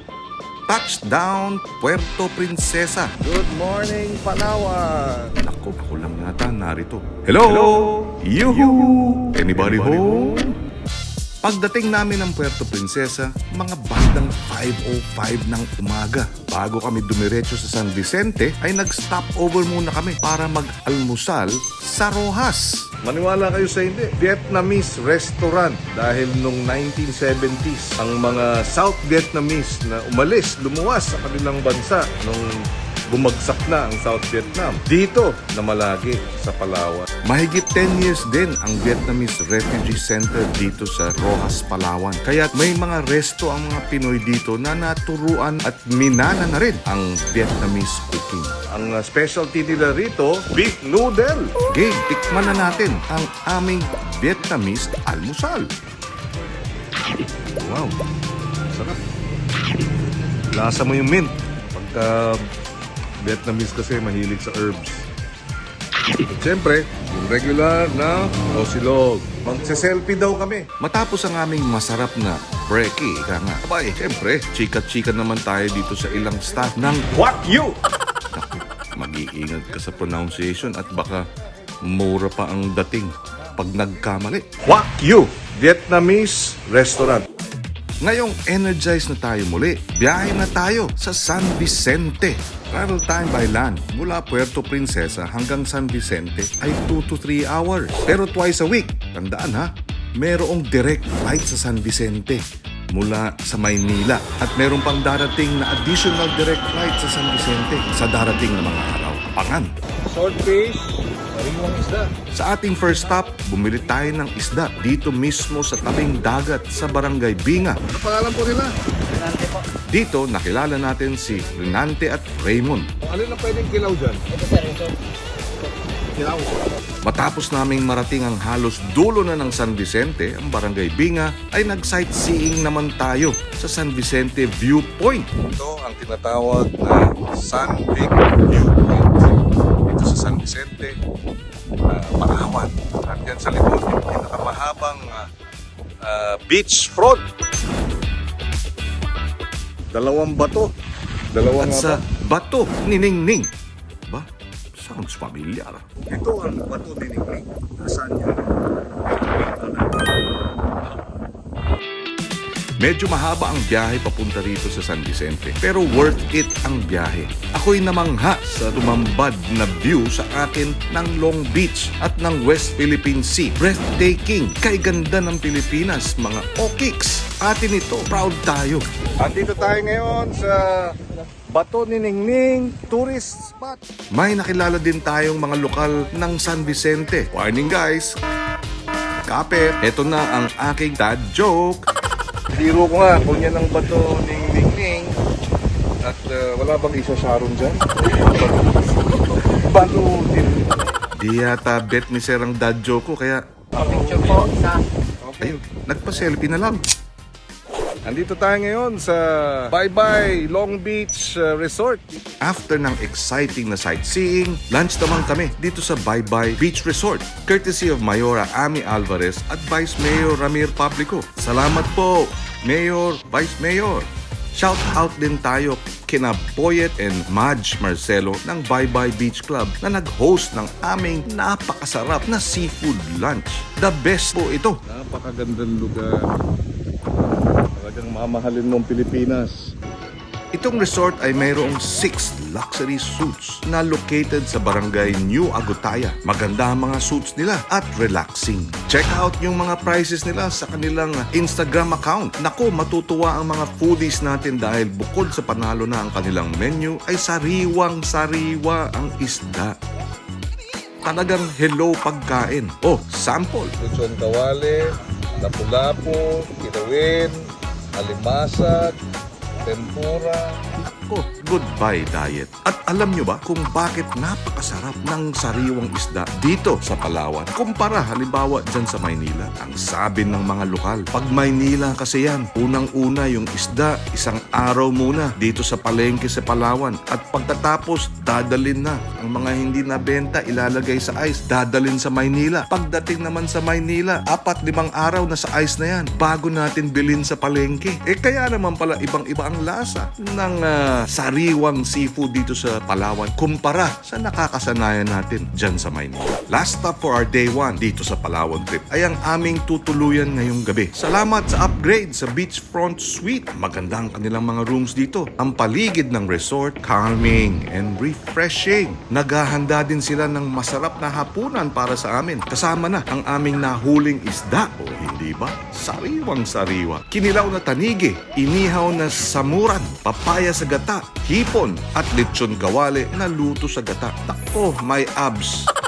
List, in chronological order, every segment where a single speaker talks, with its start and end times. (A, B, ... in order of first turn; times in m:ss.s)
0:00.7-0:03.2 A
0:03.2-0:05.3 B
0:05.4-0:10.5 A
0:08.6-0:09.2 B
0:09.9-0:10.5 B
0:11.4-0:23.0 A
0:23.0-0:32.6 B
0:33.1-0:37.1 B
0:37.1-0:48.7 A
0:48.7-0:51.6 B
0:51.6-0:55.7 A
0:57.6-0:58.0 B
0:58.7-0:59.0 B
1:00.5-1:02.4 B
1:03.2-1:05.0 B
1:06.2-1:10.7 B
1:10.7-1:17.7 A
1:17.3-1:17.7 B
1:18.3-1:21.2 A
1:21.8-1:25.6 A
1:24.8-1:27.2 B
1:26.3-1:26.8 A
1:28.0-1:49.7 A
1:50.1-1:52.1 B
1:52.3-1:57.8 A
1:57.8-1:59.6 B
1:59.8-2:02.9 A
2:03.0-2:04.9 B
2:06.2-2:06.6 B
2:07.0-2:15.4 A
2:15.4-2:20.9 B
2:21.9-2:25.2 B
2:26.0-2:27.2 B
2:29.9-2:30.7 B
2:31.3-2:32.0 B
2:31.6-2:33.5 A
2:34.1-2:36.0 A
2:36.0-2:38.5 B
2:39.1-2:40.0 B
2:42.8-2:58.8 A
2:59.2-3:01.0 B
3:01.5-3:03.8 B
3:04.1-3:08.1 A
3:09.4-3:11.8 A
3:12.5-3:15.1 B
3:16.0-3:20.7 B
3:21.2-3:23.4 A
3:23.7-3:25.6 B
3:25.4-3:26.8 A
3:28.0-3:32.4 B
3:32.4-3:54.9 A
3:54.9-3:56.3 B
3:57.8-3:59.7 B
4:00.5-4:19.8 A
4:21.0-4:23.7 A
4:23.8-4:27.4 B
4:27.9-4:29.0 B
4:29.6-4:30.6 B
4:30.7-5:35.7 A